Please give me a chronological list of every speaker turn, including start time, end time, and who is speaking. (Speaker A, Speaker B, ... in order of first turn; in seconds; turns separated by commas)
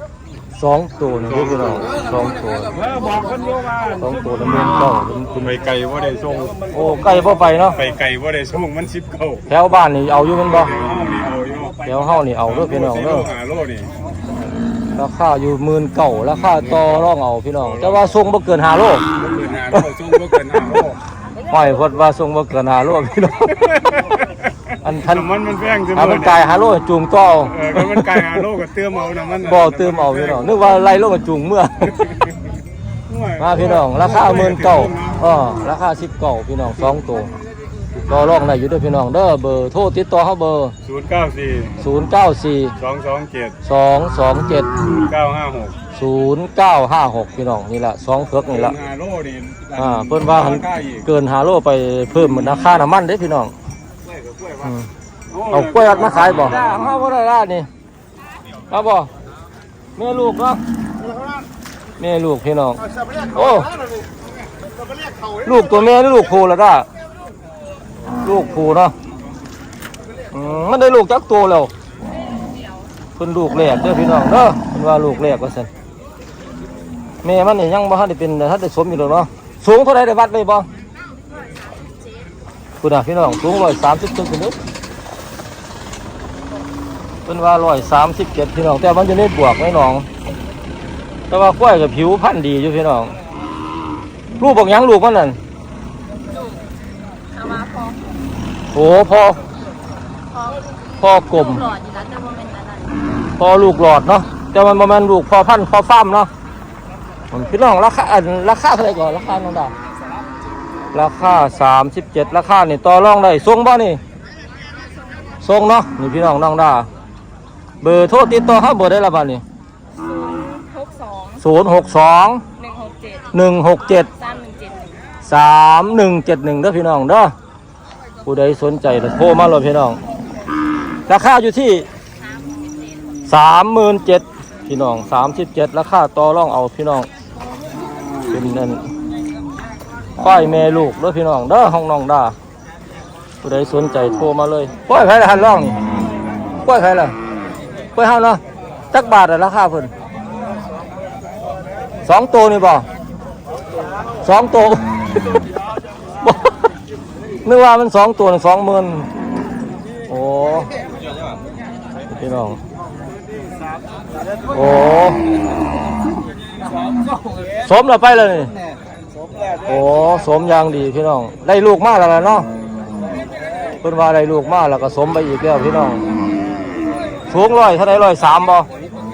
Speaker A: 0.5-2.7, Speaker B: 1.3-1.8, Speaker B: 2.7-4.5, Speaker A: 4.0-5.6, Speaker B: 5.4-6.8, Speaker A: 6.7-7.8, Speaker B: 7.8-9.4, Speaker A: 9.5-10.7, Speaker B: 10.6-11.9, Speaker A: 11.8-13.3, Speaker B: 12.4-13.9, Speaker A: 14.9-19.1, Speaker B: 19.1-21.0, Speaker A: 19.7-20.6, Speaker A: 21.5-23.6, Speaker A: 24.8-25.3, Speaker B: 25.1-26.4, Speaker A: 25.9-28.4, Speaker B: 27.5-30.4, Speaker A: 29.4-32.0, Speaker B: 32.0-32.3, Speaker B: 33.1-35.2, Speaker A: 33.4-37.3, Speaker A: 38.1-40.8, Speaker B: 40.9-41.8, Speaker A: 41.8-42.8, Speaker B: 42.8-43.5, Speaker A: 43.6-44.7, Speaker B: 45.0-45.8, Speaker A: 45.9-48.8, Speaker B: 48.5-51.0, Speaker A: 49.8-53.5, Speaker B: 54.1-54.5, Speaker A: 54.6-54.9, Speaker B: 55.3-56.6, Speaker A: 55.5-57.7, Speaker A: 58.7-59.1, Speaker A: 60.0-60.6, Speaker A: 62.0-63.7, Speaker A: 65.4-66.9, Speaker A: 68.2-68.9, Speaker A: 70.3-71.7, Speaker A: 73.2-75.7, Speaker A: 77.2-80.7, Speaker C: 81.5-82.1, Speaker A: 82.8-84.6, Speaker A: 87.3-90.1, Speaker A: 91.3-93.2, Speaker A: 94.4-95.4, Speaker C: 97.3-98.1, Speaker A: 98.7-99.4, Speaker C: 100.3-100.7, Speaker A: 101.0-101.7, Speaker C: 101.4-103.0, Speaker A: 103.4-106.3, Speaker A: 107.3-109.7, Speaker A: 110.9-114.0, Speaker A: 115.4-116.9, Speaker A: 117.8-119.4, Speaker C: 120.0-121.4, Speaker A: 121.4-122.4, Speaker C: 122.6-123.3, Speaker A: 123.3-124.1, Speaker C: 124.1-125.0, Speaker A: 125.2-127.3, Speaker A: 128.2-130.0, Speaker A: 131.1-131.9, Speaker A: 133.3-137.1, Speaker A: 138.3-138.9, Speaker A: 140.2-142.3, Speaker A: 143.4-145.8, Speaker A: 146.6-147.2, Speaker A: 147.9-149.9, Speaker A: 152.1-152.9, Speaker A: 154.2-155.4, Speaker A: 156.2-156.5, Speaker A: 157.4-159.1, Speaker A: 160.1-160.7, Speaker A: 162.1-162.6, Speaker A: 164.5-165.2, Speaker A: 167.6-168.5, Speaker A: 169.7-172.5, Speaker A: 173.8-176.0, Speaker A: 177.3-178.7